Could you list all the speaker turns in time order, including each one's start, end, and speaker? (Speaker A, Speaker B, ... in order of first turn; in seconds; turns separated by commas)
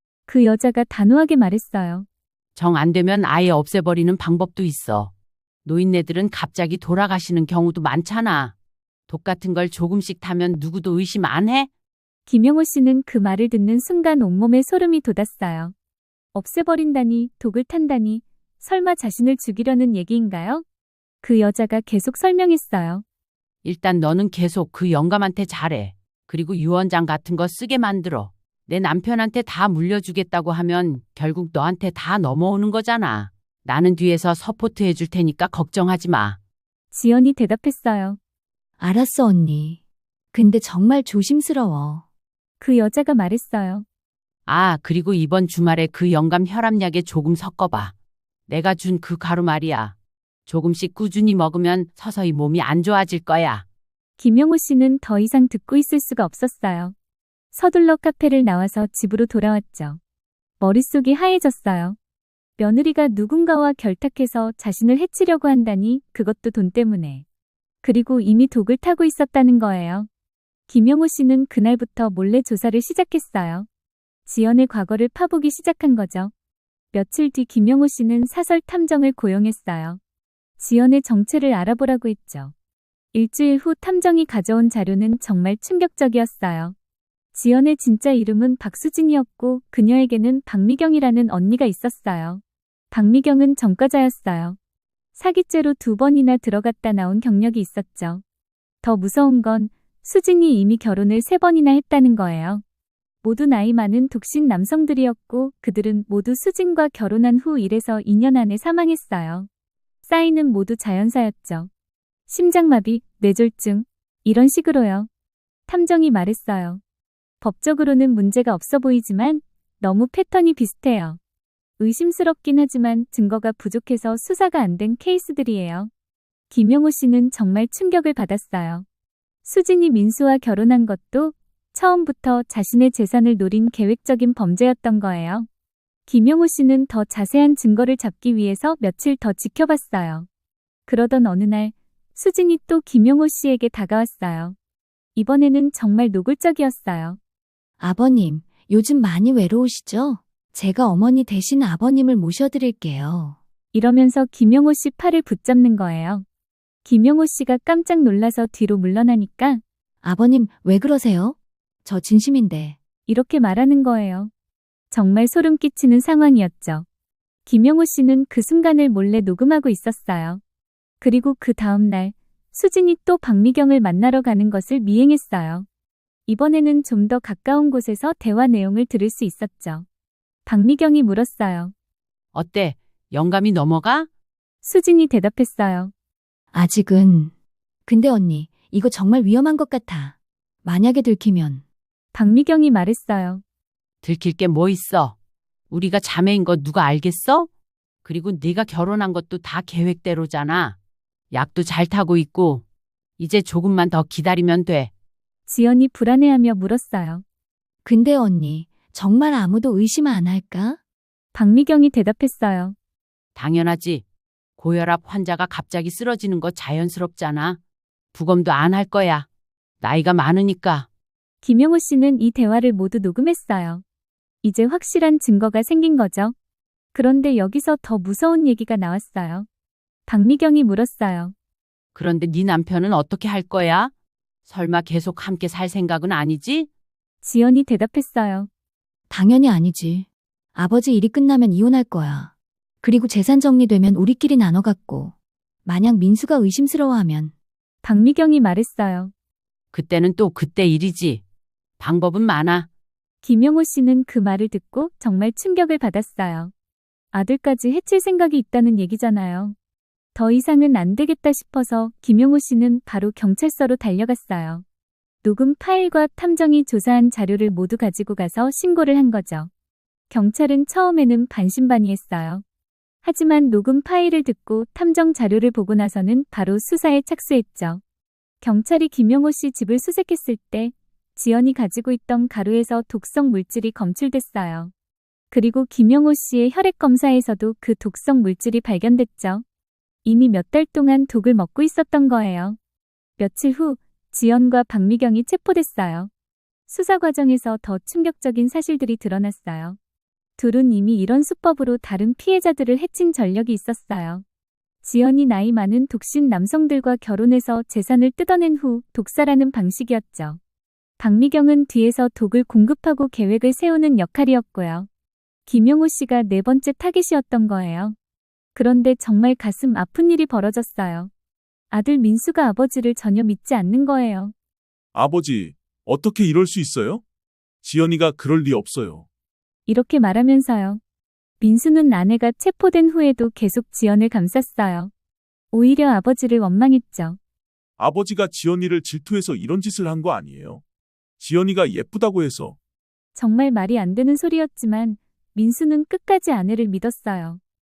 Speaker A: 0.3-2.1, Speaker B: 2.6-5.1, Speaker B: 5.7-8.5, Speaker B: 9.1-11.7, Speaker A: 12.3-15.7, Speaker A: 16.3-20.6, Speaker A: 21.2-23.1, Speaker B: 23.6-36.4, Speaker A: 36.9-38.2, Speaker C: 38.8-39.8, Speaker C: 40.3-42.0, Speaker A: 42.6-43.9, Speaker B: 44.5-47.9, Speaker B: 48.5-50.0, Speaker B: 50.5-53.6, Speaker A: 54.2-57.0, Speaker A: 57.5-60.0, Speaker A: 60.6-62.0, Speaker A: 62.6-67.2, Speaker A: 67.8-70.1, Speaker A: 70.7-73.7, Speaker A: 74.3-76.3, Speaker A: 76.9-80.0, Speaker A: 80.6-82.5, Speaker A: 83.1-86.8, Speaker A: 87.3-92.4, Speaker A: 92.9-94.6, Speaker A: 95.2-98.2, Speaker A: 98.8-102.6, Speaker A: 103.2-109.5, Speaker A: 110.0-111.7, Speaker A: 112.3-115.1, Speaker A: 115.7-116.8, Speaker A: 117.4-121.2, Speaker A: 121.8-125.9, Speaker A: 126.5-128.8, Speaker A: 129.4-135.5, Speaker A: 136.1-140.3, Speaker A: 140.9-144.6, Speaker A: 145.2-147.2, Speaker C: 147.8-153.4, Speaker A: 153.7-156.2, Speaker A: 156.8-159.6, Speaker C: 160.0-162.8, Speaker A: 163.1-164.3, Speaker A: 164.9-166.9, Speaker A: 167.5-170.4, Speaker A: 171.0-175.7, Speaker A: 176.3-179.9, Speaker A: 180.5-181.7, Speaker B: 182.3-184.1, Speaker A: 184.6-185.9, Speaker C: 186.5-187.3, Speaker C: 187.9-191.6, Speaker A: 192.1-193.4, Speaker B: 194.0-195.2, Speaker B: 195.7-197.5, Speaker B: 198.1-200.8, Speaker B: 201.3-202.7, Speaker B: 203.2-204.9, Speaker A: 205.5-207.2, Speaker C: 207.8-210.8, Speaker A: 211.3-212.8, Speaker B: 213.3-214.0, Speaker B: 214.6-217.6, Speaker B: 218.1-219.3, Speaker B: 219.8-220.9, Speaker A: 221.4-223.8, Speaker A: 224.4-226.3, Speaker A: 226.9-229.5, Speaker A: 230.1-231.3, Speaker B: 231.9-233.9, Speaker B: 234.5-236.7, Speaker A: 237.2-238.5, Speaker C: 239.1-245.1, Speaker C: 245.7-247.3, Speaker A: 247.8-249.1, Speaker B: 249.7-251.2, Speaker B: 251.8-252.7, Speaker A: 253.2-256.5, Speaker A: 257.1-259.6, Speaker A: 260.1-264.6, Speaker A: 265.2-269.5, Speaker A: 270.1-272.4, Speaker A: 273.0-277.8, Speaker A: 278.4-284.7, Speaker A: 285.3-289.4, Speaker A: 290.1-292.6, Speaker A: 293.2-296.1, Speaker A: 296.7-299.8, Speaker A: 300.4-304.2, Speaker A: 304.8-310.4, Speaker A: 311.0-314.9, Speaker A: 315.5-318.0, Speaker A: 318.6-321.1, Speaker A: 321.7-324.3, Speaker D: 324.9-327.0, Speaker D: 327.6-329.1, Speaker A: 329.7-330.8, Speaker A: 331.4-334.9, Speaker A: 335.5-337.2, Speaker D: 337.8-340.6, Speaker D: 341.2-342.6, Speaker A: 343.1-347.4